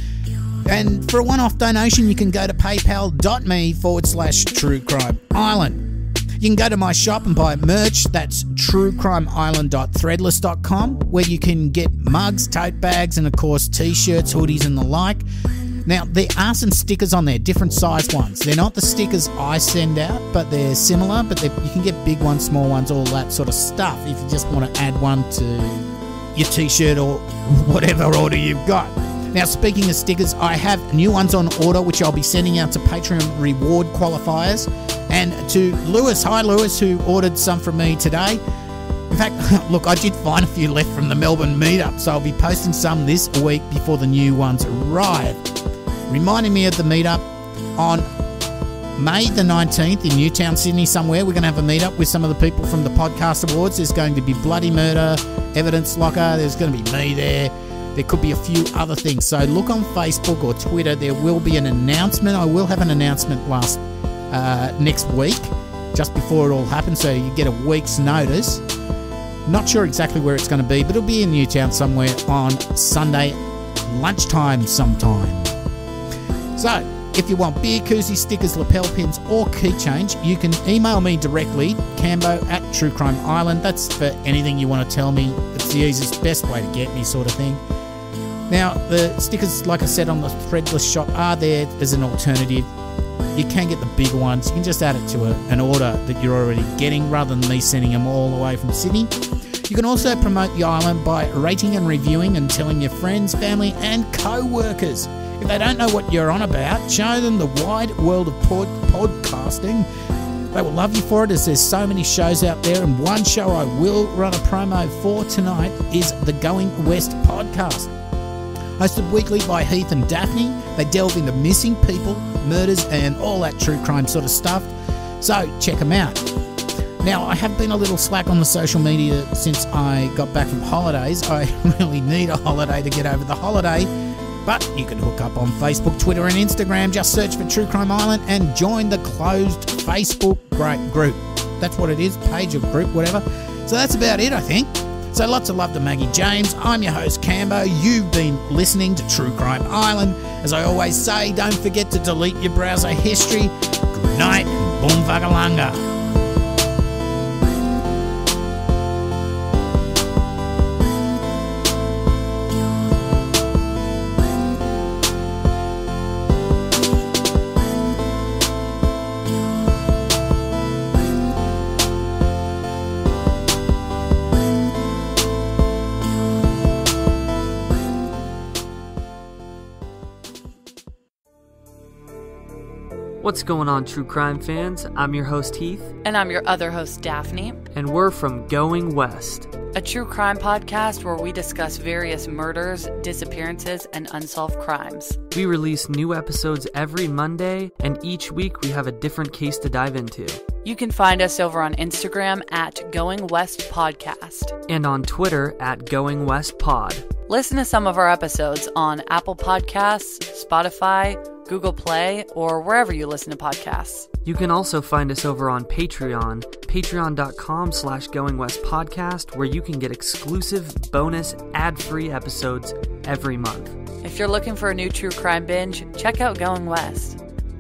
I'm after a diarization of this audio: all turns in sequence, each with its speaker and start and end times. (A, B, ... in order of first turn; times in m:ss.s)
0:00.6-0:05.9 A
0:06.4-0:15.2 A
0:15.9-0:38.4 A
0:39.1-0:45.4 A
0:46.1-0:48.1 A
0:49.0-1:08.6 A
1:09.4-1:15.5 A
1:16.6-1:27.6 A
1:28.5-1:32.7 A
1:33.3-1:39.1 A
1:39.7-1:49.9 A
1:50.5-1:57.9 A
1:58.8-2:06.2 A
2:07.0-2:13.9 A
2:14.4-2:35.9 A
3:03.2-3:05.9 B
3:06.0-3:07.6 C
3:07.7-3:09.5 B
3:09.7-3:15.2 C
3:15.3-3:20.4 B
3:20.6-3:24.6 C
3:24.7-3:27.1 B
3:27.3-3:34.1 C
3:34.2-3:43.8 B
3:44.0-3:47.2 C